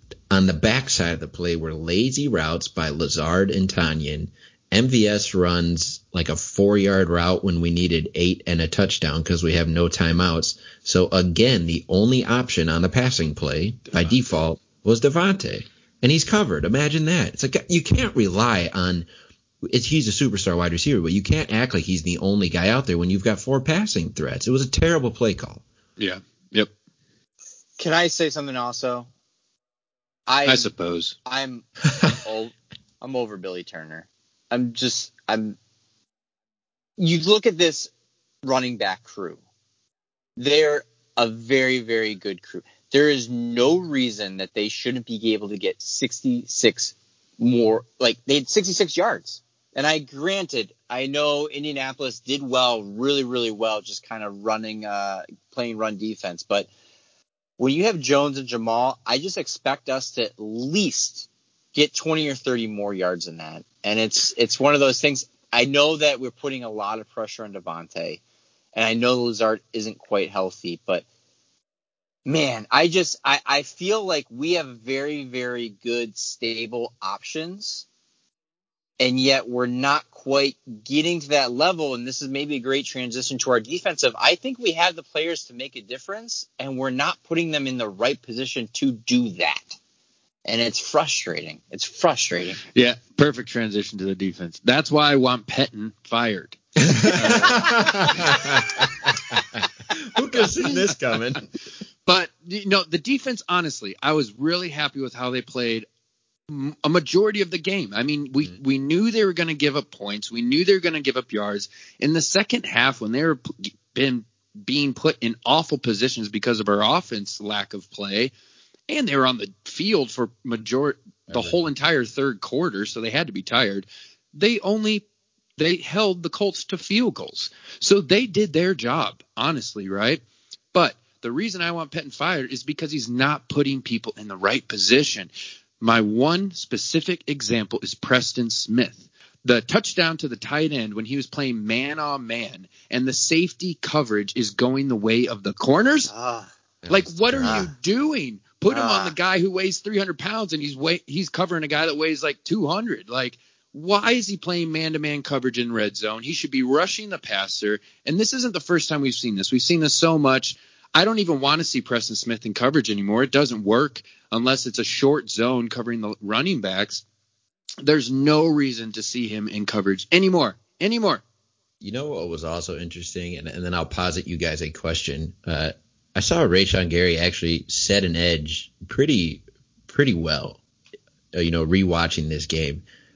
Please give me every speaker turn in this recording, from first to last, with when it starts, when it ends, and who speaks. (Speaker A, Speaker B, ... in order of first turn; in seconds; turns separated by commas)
Speaker A: 0.3-19.1, Speaker B: 13.9-14.2, Speaker A: 19.6-25.6, Speaker B: 26.0-26.7, Speaker C: 27.8-29.1, Speaker C: 30.3-30.7, Speaker B: 30.4-31.1, Speaker C: 31.2-35.6, Speaker A: 31.9-32.1, Speaker C: 37.0-37.9, Speaker C: 38.4-39.4, Speaker C: 40.4-56.7, Speaker C: 57.6-68.2, Speaker C: 68.7-71.0, Speaker C: 72.2-77.8, Speaker C: 79.0-89.8, Speaker C: 90.4-92.6, Speaker B: 92.7-98.4, Speaker A: 96.8-101.5, Speaker B: 100.4-100.9, Speaker B: 102.1-105.9, Speaker B: 106.5-118.3, Speaker B: 118.9-125.0, Speaker A: 121.3-121.6, Speaker B: 125.6-130.2, Speaker B: 130.7-135.3, Speaker B: 135.8-146.1, Speaker C: 146.1-146.5, Speaker A: 146.8-147.7, Speaker B: 146.9-167.0, Speaker C: 147.4-147.7, Speaker C: 148.7-149.1, Speaker B: 167.8-171.2, Speaker A: 171.8-180.6, Speaker A: 181.3-182.8